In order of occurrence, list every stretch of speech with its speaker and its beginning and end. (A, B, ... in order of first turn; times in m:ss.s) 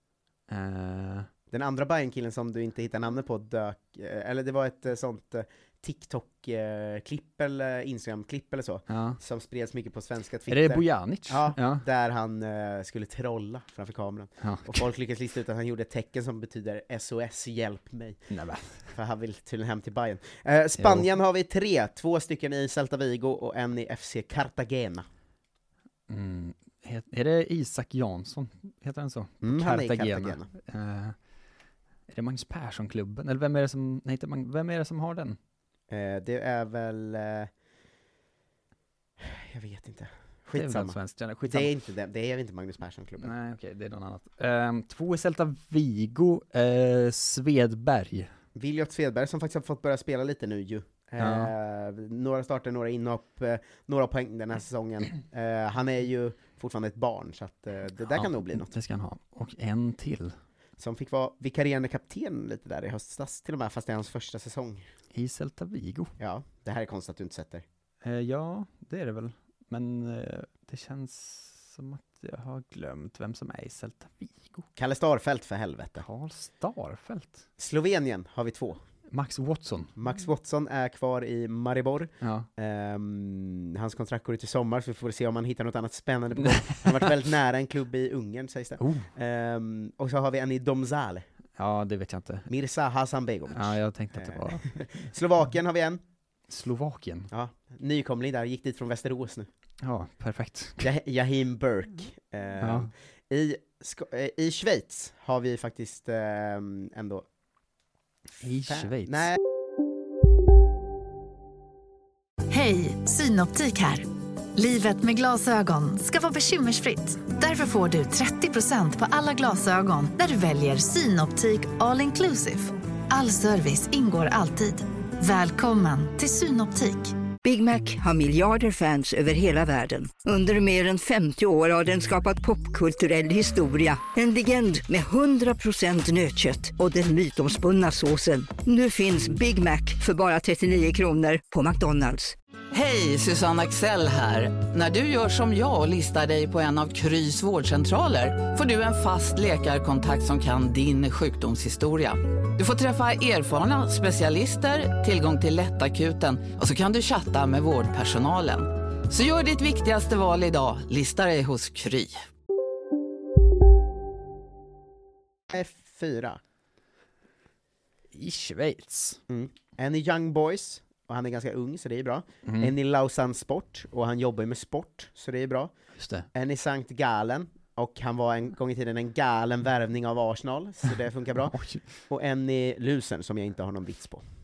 0:00.5-0:01.3 A
0:01.5-0:18.2 B
0:08.9-0:09.2 A
0:10.5-0:11.8 A
0:14.4-0:14.8 A
0:18.3-0:18.8 A
0:18.9-0:25.0 B
0:20.8-0:21.1 A
0:26.1-0:31.2 A
0:29.4-0:30.5 B
0:32.1-0:35.4 A
0:35.9-0:37.5 B
0:39.2-0:43.3 B
0:40.5-0:41.7 A
0:43.2-0:48.3 A
0:48.5-0:58.7 B
0:51.2-0:51.5 A
0:58.1-1:00.4 A
1:00.8-1:04.8 B
1:05.1-1:06.1 A
1:06.2-1:07.6 B
1:08.0-1:14.7 A
1:14.8-1:16.0 B
1:16.0-1:17.4 A
1:17.6-1:18.8 B
1:19.1-1:19.9 A
1:20.0-1:31.2 B
1:22.2-1:22.5 A
1:26.4-1:27.1 A
1:28.8-1:29.1 A
1:31.6-1:32.5 A
1:32.5-1:36.0 B
1:33.5-1:34.8 A
1:36.5-1:37.3 A
1:37.3-1:39.5 B
1:39.8-1:40.9 A
1:40.8-1:47.2 B
1:42.6-1:42.9 A
1:48.4-1:49.3 A
1:48.7-1:49.4 B
1:52.5-2:07.1 C
2:07.4-2:22.3 D
2:22.7-2:42.2 E
2:45.5-2:46.4 B
2:48.1-2:49.2 A
2:49.3-2:55.7 B
2:52.4-2:52.7 A
2:56.0-2:56.2 A
2:56.3-3:01.6 B
3:01.4-3:01.8 A
3:02.1-3:04.2 B